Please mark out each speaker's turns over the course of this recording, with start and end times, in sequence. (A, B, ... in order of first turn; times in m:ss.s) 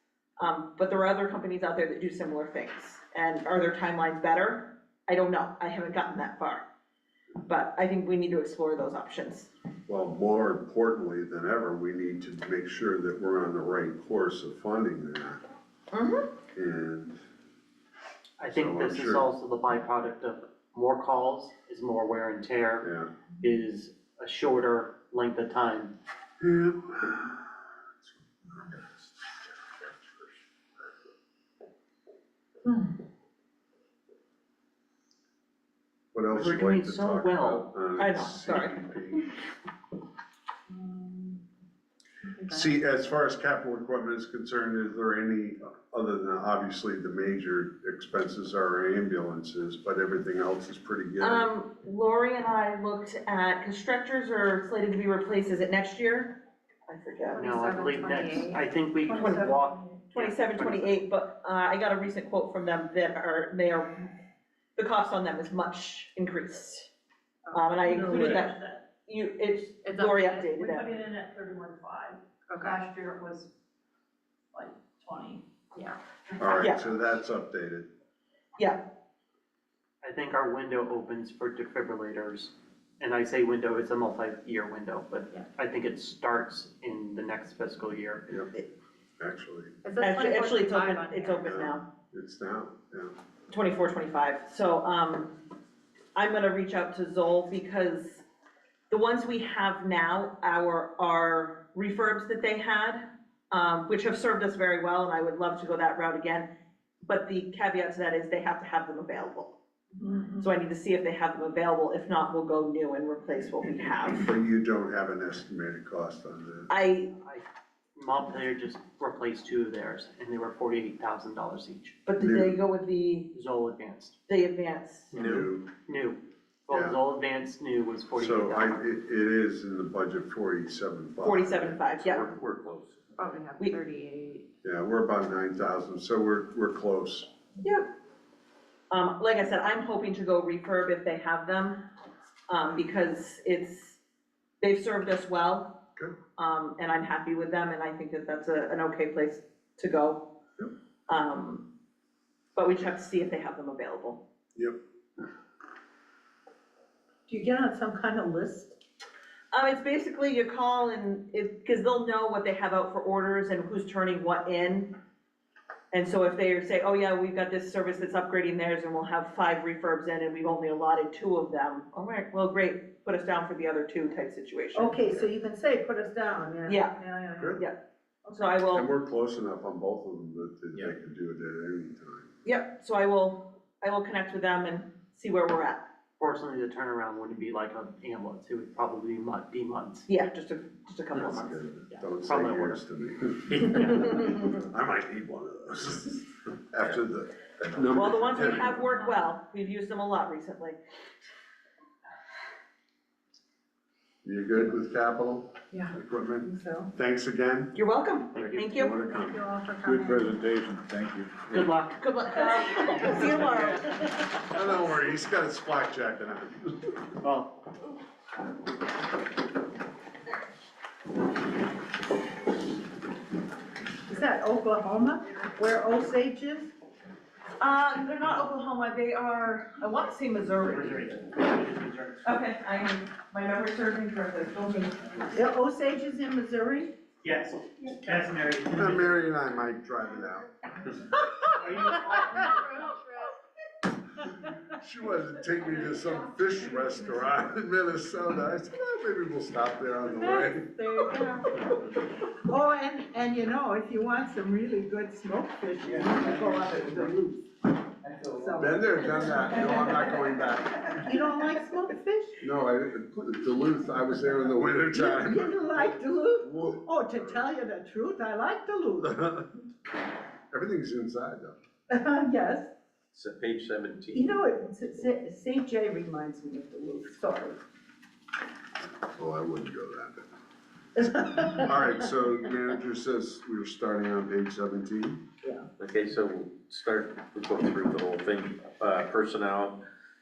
0:00.4-0:06.6 A
0:07.4-0:09.5 A
0:09.9-0:15.4 B
0:15.9-0:16.3 A
0:16.5-0:17.2 B
0:18.4-0:22.9 C
0:18.5-0:19.2 B
0:22.8-0:23.1 B
0:23.4-0:25.9 C
0:26.4-0:27.4 B
0:28.0-0:28.8 B
0:36.1-0:39.3 B
0:36.3-0:37.7 C
0:38.0-0:38.8 A
0:40.8-0:41.3 D
0:42.5-0:51.5 B
0:51.2-0:57.5 A
0:57.3-0:58.6 D
0:57.4-1:01.0 C
0:59.1-0:59.5 A
1:00.1-1:04.1 A
1:04.8-1:06.9 A
1:07.4-1:08.5 D
1:07.5-1:10.9 A
1:08.2-1:08.8 E
1:09.8-1:10.6 D
1:10.7-1:13.5 E
1:12.5-1:12.8 D
1:14.6-1:15.4 E
1:16.4-1:17.9 B
1:16.6-1:16.8 A
1:18.6-1:18.9 A
1:20.0-1:28.2 C
1:29.2-1:29.8 B
1:29.8-1:31.6 D
1:30.0-1:31.9 A
1:31.4-1:33.1 B
1:33.5-1:35.4 A
1:36.1-1:38.2 A
1:38.9-1:49.6 A
1:50.0-1:50.4 F
1:50.4-1:54.3 A
1:54.2-1:56.7 B
1:56.7-1:57.1 A
1:57.9-2:02.0 C
2:02.0-2:03.3 A
2:02.2-2:02.6 B
2:03.3-2:04.2 C
2:04.3-2:05.1 A
2:05.1-2:05.5 G
2:05.1-2:05.7 B
2:05.9-2:08.8 C
2:06.7-2:07.0 B
2:08.2-2:11.8 B
2:11.2-2:12.3 A
2:12.0-2:13.1 G
2:13.2-2:14.4 D
2:14.6-2:17.3 B
2:17.6-2:17.9 A
2:18.9-2:21.8 A
2:22.5-2:24.0 A
2:24.6-2:25.8 A
2:26.4-2:30.4 A
2:31.1-2:31.7 A
2:32.6-2:34.2 A
2:37.3-2:38.8 F
2:39.5-2:45.0 A
2:45.9-2:55.2 A
2:54.7-2:57.6 F
2:56.6-2:56.9 A
2:58.3-2:58.9 A
2:58.7-3:02.3 B
3:02.4-3:05.8 A
3:06.2-3:10.1 C
3:10.1-3:11.6 A
3:11.1-3:18.9 B
3:12.1-3:12.8 C
3:17.9-3:20.8 A
3:24.2-3:27.8 B
3:25.7-3:26.9 F
3:27.7-3:29.0 A
3:28.3-3:28.6 C
3:28.6-3:29.4 B
3:29.0-3:30.3 F
3:31.5-3:32.1 C
3:32.0-3:34.0 A
3:32.8-3:33.8 C
3:34.5-3:36.9 B
3:37.2-3:37.5 C
3:44.1-3:46.7 F
3:47.6-3:51.0 A
3:50.6-3:52.2 C
3:52.2-3:55.3 A
3:55.3-3:57.0 F
3:57.2-3:59.1 C
3:58.7-4:00.5 B
4:01.6-4:02.5 C
4:04.8-4:10.7 B
4:10.2-4:11.5 F
4:12.4-4:17.5 F
4:18.3-4:20.2 F
4:18.6-4:21.0 B
4:20.9-4:22.4 F
4:22.4-4:27.4 B
4:24.9-4:29.3 F
4:29.2-4:29.4 B
4:30.5-4:31.6 B
4:31.9-4:32.7 F
4:33.1-4:34.4 G
4:34.1-4:37.6 F
4:39.1-4:40.3 B
4:41.0-4:45.2 B
4:41.2-4:41.5 F
4:45.8-4:49.8 G